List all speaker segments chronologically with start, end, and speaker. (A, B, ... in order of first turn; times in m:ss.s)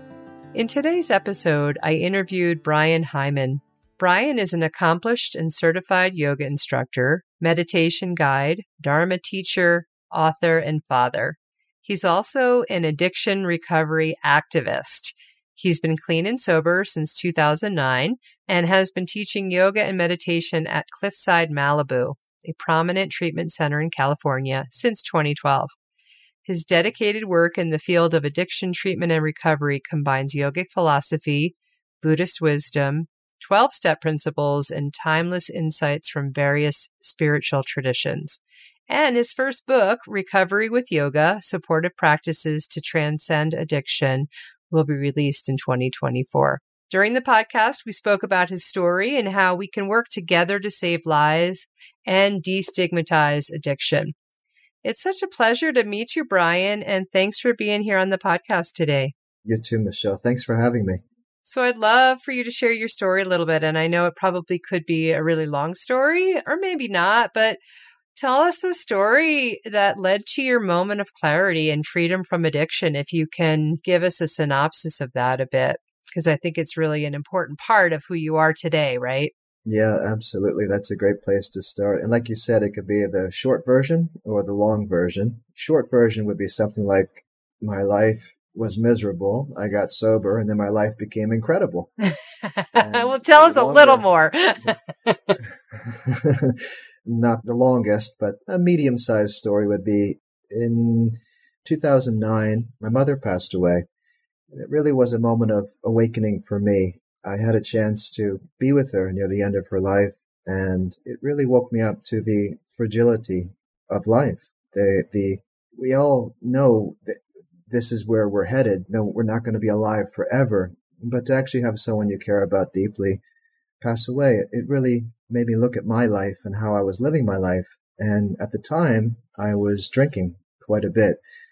0:00.5-0:25.7 A
0:26.4-0:54.1 A
0:54.8-0:59.1 A
0:59.4-1:01.0 B
1:01.4-1:07.6 A
1:08.1-1:19.3 A
1:19.6-1:31.9 B
1:32.4-1:35.4 A
1:32.8-1:34.1 B
1:35.7-1:43.8 B
1:44.5-2:03.2 B
2:03.8-2:11.2 B